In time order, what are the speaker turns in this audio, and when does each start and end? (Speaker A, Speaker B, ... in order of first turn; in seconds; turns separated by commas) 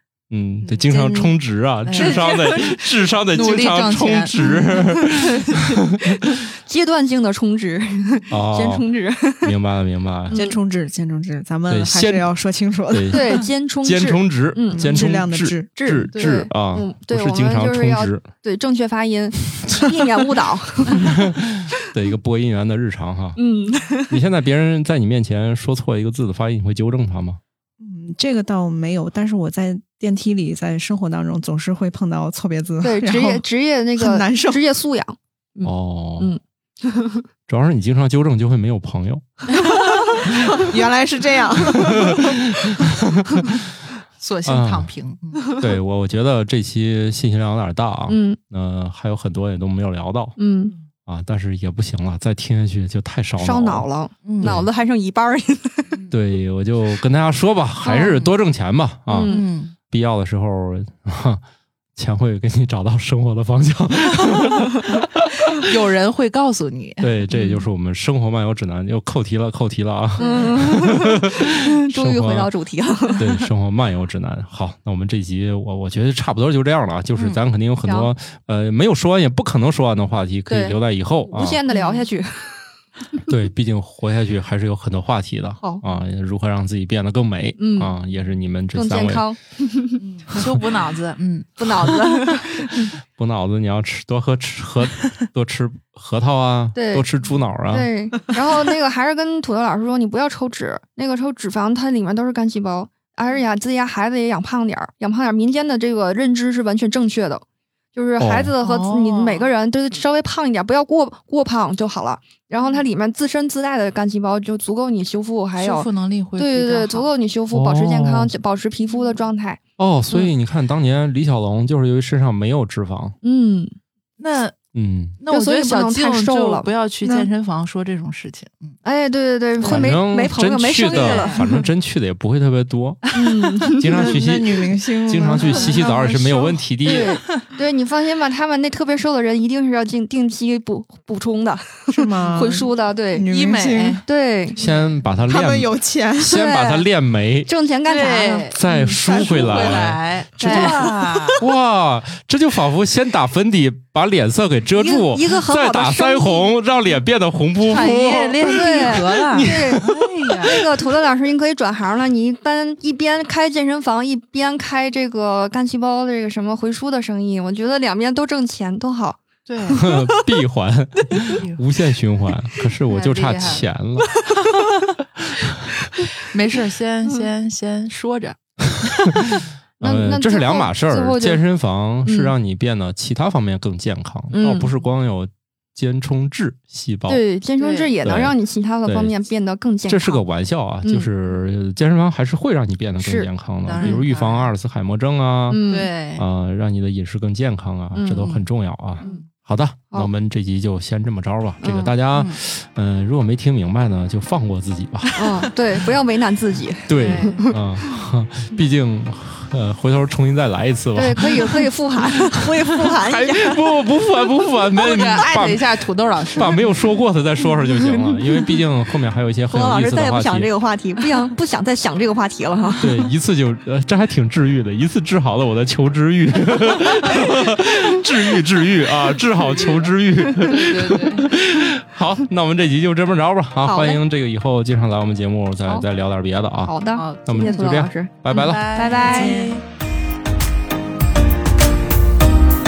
Speaker A: 0.3-6.1, Speaker B: 0.6-5.8, Speaker C: 6.4-9.5, Speaker A: 8.3-8.8, Speaker A: 9.4-10.4, Speaker C: 10.3-10.6, Speaker D: 10.3-13.2, Speaker A: 11.7-12.3, Speaker A: 12.9-18.3, Speaker C: 13.1-15.1, Speaker D: 14.7-15.9, Speaker C: 15.8-21.2, Speaker A: 21.0-23.4, Speaker C: 23.4-24.2, Speaker A: 24.1-27.4, Speaker D: 27.8-33.5, Speaker C: 32.8-37.2, Speaker D: 34.0-34.6, Speaker A: 35.6-36.3, Speaker A: 37.5-39.2, Speaker D: 39.9-42.4, Speaker A: 41.7-43.7, Speaker B: 44.2-45.5, Speaker A: 44.5-44.9, Speaker A: 45.6-50.4, Speaker C: 48.1-48.4, Speaker C: 50.4-50.7, Speaker A: 51.1-53.9, Speaker C: 53.4-56.0, Speaker B: 54.2-54.6, Speaker A: 54.4-54.7, Speaker A: 56.1-59.4, Speaker C: 57.8-58.2, Speaker C: 59.1-59.4, Speaker B: 59.3-59.7, Speaker A: 59.9-61.4, Speaker A: 62.0-65.1, Speaker B: 65.6-67.6, Speaker A: 67.0-72.5, Speaker B: 70.2-70.6, Speaker C: 70.2-73.2, Speaker A: 73.2-81.6, Speaker B: 77.2-77.4, Speaker C: 77.8-78.1, Speaker C: 80.5-80.8, Speaker C: 81.3-82.7, Speaker B: 81.7-82.0, Speaker A: 83.3-89.2, Speaker C: 85.6-85.9, Speaker C: 87.6-88.0, Speaker C: 88.7-90.0, Speaker B: 90.0-92.2, Speaker C: 91.6-92.9, Speaker A: 93.0-97.9, Speaker C: 96.8-97.1, Speaker C: 97.7-107.4, Speaker C: 108.0-119.6, Speaker A: 108.2-108.5, Speaker B: 108.6-109.5, Speaker B: 115.6-117.1, Speaker A: 117.5-118.3, Speaker A: 119.8-123.2, Speaker C: 123.2-123.7, Speaker B: 124.2-124.6, Speaker A: 124.7-125.2, Speaker B: 125.2-128.8, Speaker C: 125.3-127.3, Speaker C: 128.8-131.5, Speaker B: 129.6-129.9, Speaker A: 129.6-133.1, Speaker B: 130.9-131.5, Speaker B: 133.1-133.3, Speaker C: 133.1-133.9, Speaker A: 133.7-137.2, Speaker D: 133.9-136.0, Speaker B: 135.4-137.4, Speaker C: 136.8-143.2, Speaker D: 141.9-144.0, Speaker B: 143.3-144.0, Speaker C: 144.1-144.6, Speaker A: 144.6-147.5, Speaker D: 145.3-146.4, Speaker C: 146.2-146.9, Speaker C: 147.5-149.7, Speaker B: 147.9-151.4, Speaker A: 148.5-160.6, Speaker C: 150.4-151.4, Speaker C: 154.8-156.5, Speaker B: 157.7-160.5, Speaker C: 157.7-159.9, Speaker C: 160.4-169.2, Speaker B: 169.5-169.8, Speaker C: 169.8-170.1, Speaker A: 169.8-174.2, Speaker B: 171.3-171.6, Speaker B: 172.9-173.7, Speaker B: 176.2-178.4, Speaker C: 179.8-181.4, Speaker A: 179.8-187.2, Speaker C: 182.1-182.3, Speaker C: 184.3-184.7, Speaker C: 187.1-190.2, Speaker B: 187.6-187.9, Speaker A: 188.0-188.3, Speaker A: 188.9-189.1, Speaker A: 189.9-205.5, Speaker C: 190.8-191.1, Speaker C: 193.0-194.0, Speaker B: 193.7-194.5, Speaker C: 195.5-195.9, Speaker B: 195.7-196.2, Speaker C: 197.9-198.3, Speaker B: 198.2-198.4, Speaker C: 201.6-201.9, Speaker B: 202.1-202.4, Speaker C: 205.2-207.6, Speaker A: 206.9-211.7, Speaker B: 206.9-207.5, Speaker C: 210.9-213.6, Speaker A: 213.0-215.7, Speaker B: 214.8-216.7, Speaker A: 216.3-220.5, Speaker C: 219.5-223.0, Speaker A: 222.8-238.9, Speaker B: 230.4-231.3, Speaker C: 233.7-234.0, Speaker C: 236.7-239.6, Speaker B: 237.0-237.5, Speaker B: 238.3-239.6